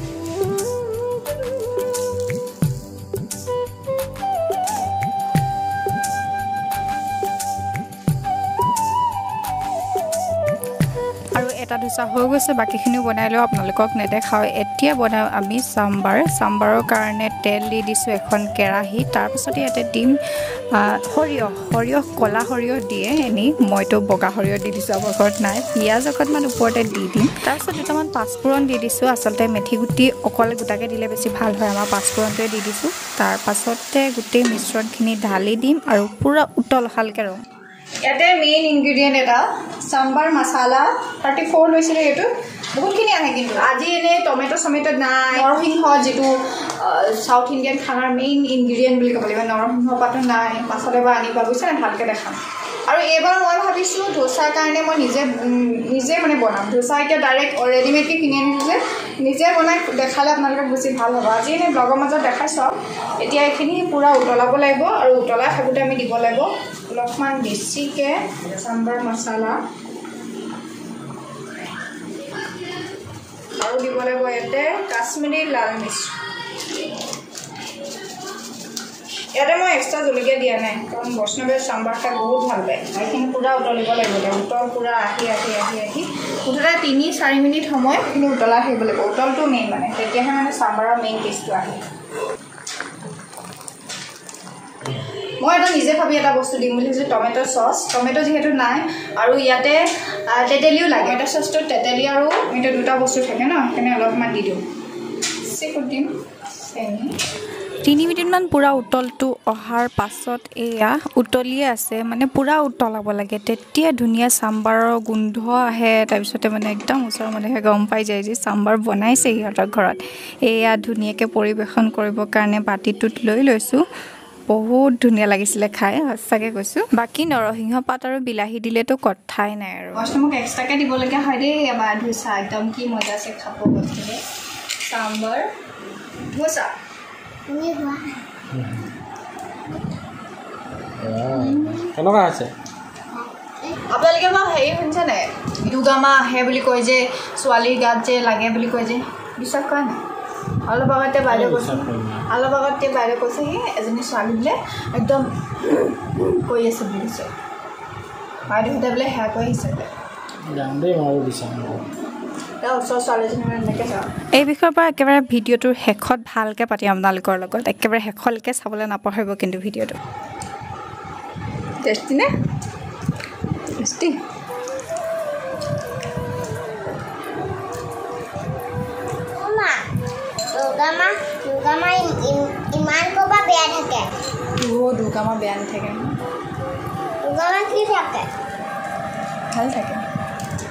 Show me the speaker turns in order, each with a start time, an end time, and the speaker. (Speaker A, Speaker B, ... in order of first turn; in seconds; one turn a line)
Speaker A: 11.3-20.1
Speaker A: 20.7-37.4
Speaker B: 38.0-69.6
Speaker B: 73.6-76.2
Speaker B: 79.3-91.8
Speaker B: 95.4-104.6
Speaker B: 105.4-107.1
Speaker A: 107.8-123.8
Speaker A: 124.5-130.1
Speaker B: 129.9-134.2
Speaker B: 134.8-135.5
Speaker B: 136.3-136.7
Speaker C: 137.5-138.2
Speaker D: 141.0-142.5
Speaker B: 143.9-150.0
Speaker B: 150.6-157.3
Speaker D: 151.5-152.1
Speaker B: 158.5-159.9
Speaker D: 160.5-161.8
Speaker B: 162.6-164.1
Speaker A: 164.3-170.0
Speaker B: 171.8-172.3
Speaker B: 173.8-174.2
Speaker C: 179.3-179.8
Speaker C: 180.5-184.1
Speaker B: 184.6-186.2
Speaker C: 187.2-188.3
Speaker B: 189.5-190.0